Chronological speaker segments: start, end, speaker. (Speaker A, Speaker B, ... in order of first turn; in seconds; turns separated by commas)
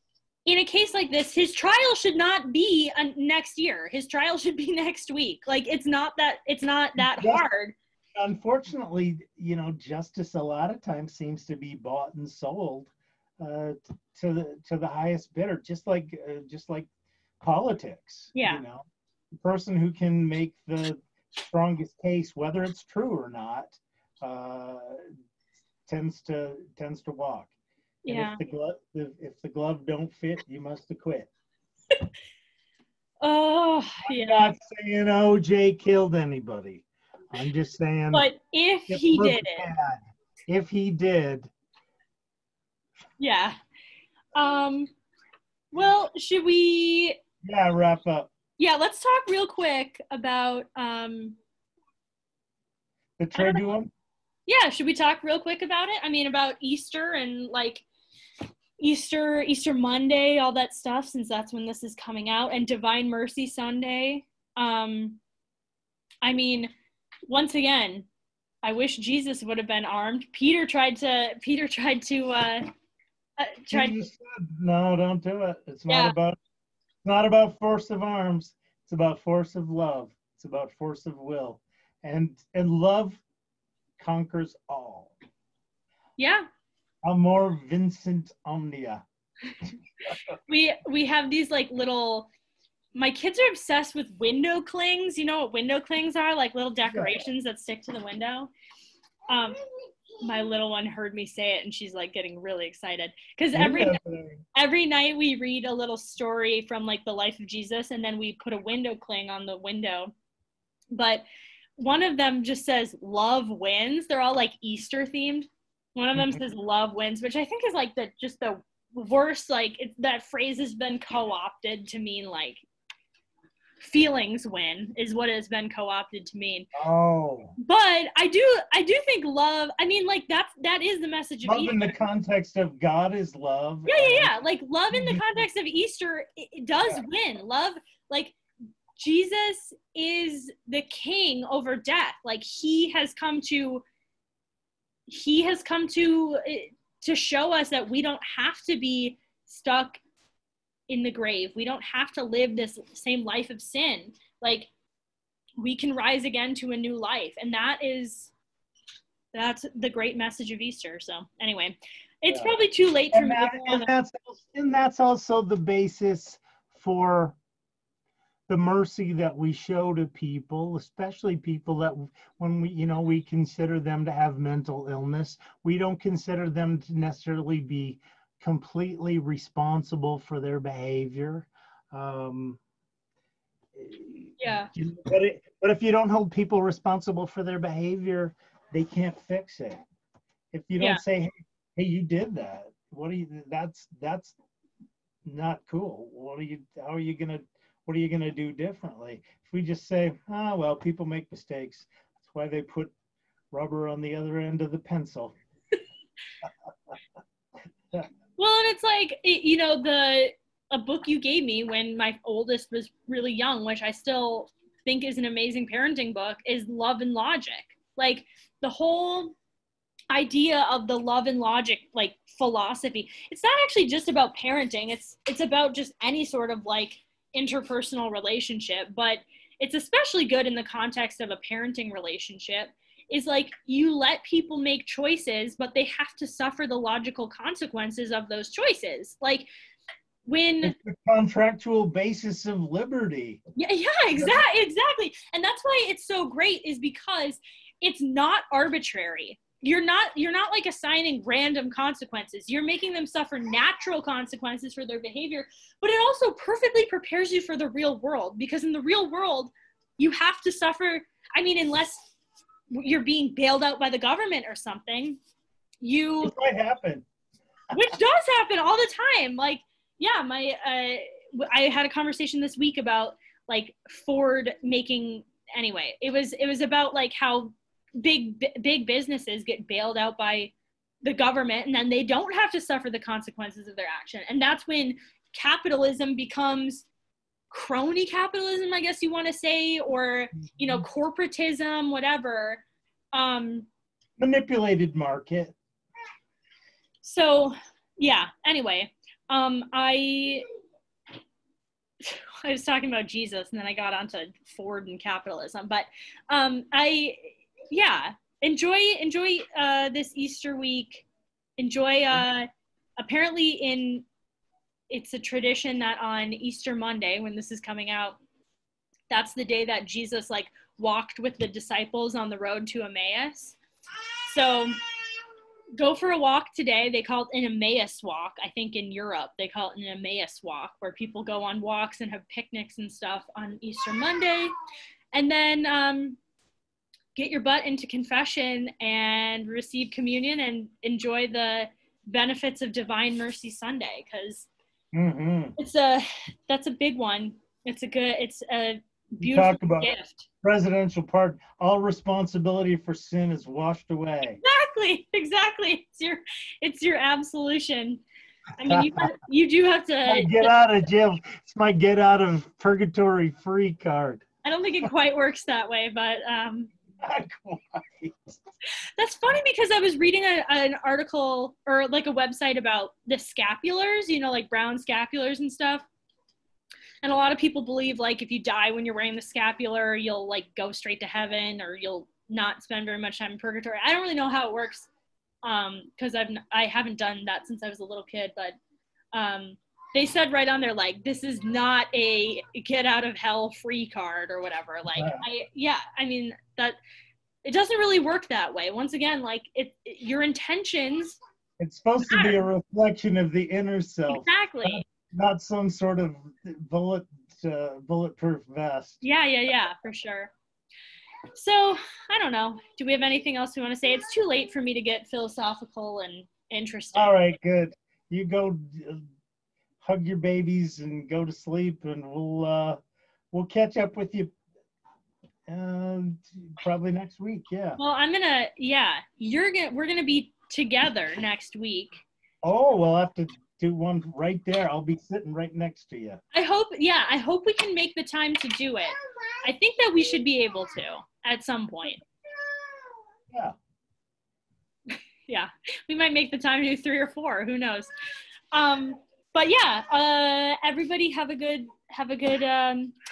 Speaker A: 0.4-7.7, Speaker B: 7.0-7.4, Speaker B: 8.2-16.9, Speaker B: 17.4-25.1, Speaker A: 18.3-18.6, Speaker B: 25.9-27.5, Speaker A: 28.0-28.4, Speaker B: 28.1-31.3, Speaker A: 33.2-34.5, Speaker B: 34.0-38.3, Speaker A: 38.1-39.6, Speaker B: 38.9-41.5, Speaker A: 43.2-43.6, Speaker A: 44.3-44.9, Speaker A: 45.7-47.2, Speaker B: 47.4-48.3, Speaker A: 48.6-51.4, Speaker B: 53.2-53.9, Speaker A: 53.3-53.6, Speaker A: 54.5-57.8, Speaker A: 58.8-65.2, Speaker A: 66.2-66.7, Speaker A: 67.2-68.1, Speaker A: 68.6-72.7, Speaker A: 73.4-74.0, Speaker B: 73.7-76.4, Speaker A: 75.9-76.1, Speaker B: 77.0-83.2, Speaker B: 84.0-85.1, Speaker A: 86.2-86.5, Speaker B: 87.0-89.0, Speaker A: 90.5-92.3, Speaker A: 92.9-98.5, Speaker B: 96.9-97.2, Speaker A: 99.3-99.6, Speaker A: 100.2-104.0, Speaker B: 103.5-104.4, Speaker A: 104.5-110.1, Speaker A: 110.9-111.2, Speaker A: 111.8-122.6, Speaker B: 116.1-116.4, Speaker A: 123.8-126.7, Speaker B: 126.7-127.5, Speaker A: 127.6-131.9, Speaker B: 131.4-134.3, Speaker A: 133.9-138.4, Speaker B: 134.9-135.4, Speaker A: 138.9-143.8, Speaker A: 145.1-150.0, Speaker A: 150.9-154.7, Speaker A: 155.6-158.3, Speaker A: 159.3-163.9, Speaker B: 162.3-162.6, Speaker B: 163.1-167.4, Speaker B: 168.5-182.6, Speaker B: 183.7-189.8, Speaker A: 184.4-184.7, Speaker B: 190.5-194.3, Speaker B: 195.2-202.9, Speaker B: 203.5-205.3, Speaker A: 208.4-219.3, Speaker A: 220.1-239.5, Speaker A: 240.2-240.7, Speaker B: 240.6-243.4, Speaker A: 243.6-262.1, Speaker A: 262.7-265.2, Speaker A: 265.8-266.3, Speaker B: 266.2-267.1, Speaker A: 267.7-286.9, Speaker A: 287.5-293.7, Speaker B: 294.2-295.6, Speaker A: 297.0-300.4, Speaker A: 302.0-311.1, Speaker A: 311.6-314.1, Speaker A: 314.9-318.2, Speaker A: 319.1-323.6, Speaker A: 324.2-324.8, Speaker A: 325.8-334.5, Speaker A: 335.1-336.2, Speaker A: 337.1-344.5, Speaker B: 344.9-345.6, Speaker A: 345.6-350.3, Speaker B: 349.2-354.4, Speaker A: 354.4-358.0, Speaker A: 358.6-360.5, Speaker B: 358.6-359.1, Speaker B: 360.1-364.2, Speaker A: 364.4-366.7, Speaker B: 367.0-368.4, Speaker A: 369.0-375.9, Speaker A: 377.0-384.9, Speaker A: 385.4-388.6, Speaker A: 389.1-396.8, Speaker B: 394.9-395.2, Speaker A: 397.4-401.2, Speaker B: 401.6-409.0, Speaker A: 402.0-402.4, Speaker A: 404.1-404.8, Speaker A: 409.0-410.3, Speaker A: 411.3-417.1, Speaker B: 416.9-419.1, Speaker B: 419.8-422.8, Speaker B: 423.3-424.3, Speaker B: 425.5-427.8, Speaker A: 427.8-432.0, Speaker B: 432.4-436.2, Speaker A: 436.3-442.0, Speaker A: 444.9-447.9, Speaker A: 448.5-452.9